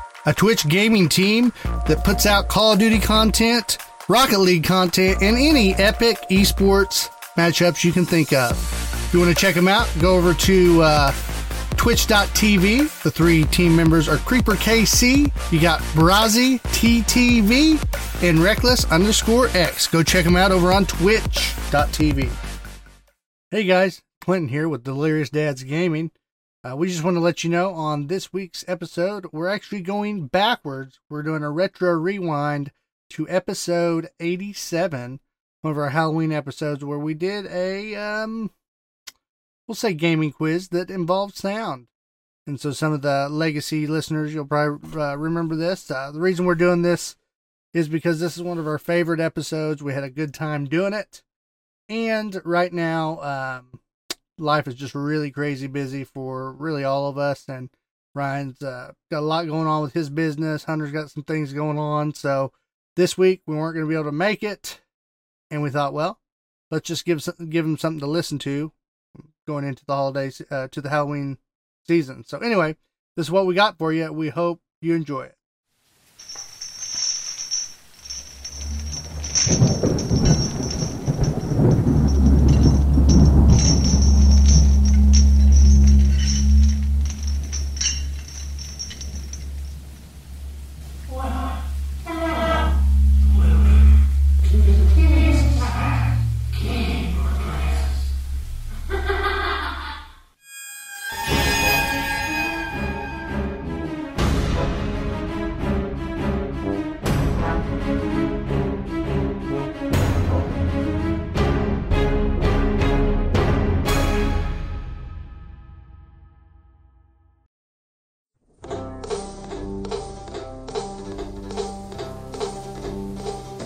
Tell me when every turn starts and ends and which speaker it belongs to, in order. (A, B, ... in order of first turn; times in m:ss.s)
0:00.2-0:11.2 A
0:11.8-0:22.4 A
0:23.5-0:26.1 A
0:26.6-0:38.5 A
0:39.7-0:41.9 A
0:42.4-0:47.2 A
0:47.7-0:51.2 A
0:51.9-0:53.8 A
0:54.4-1:04.8 A
1:05.5-1:06.2 A
1:06.7-1:08.7 A
1:09.4-1:15.3 A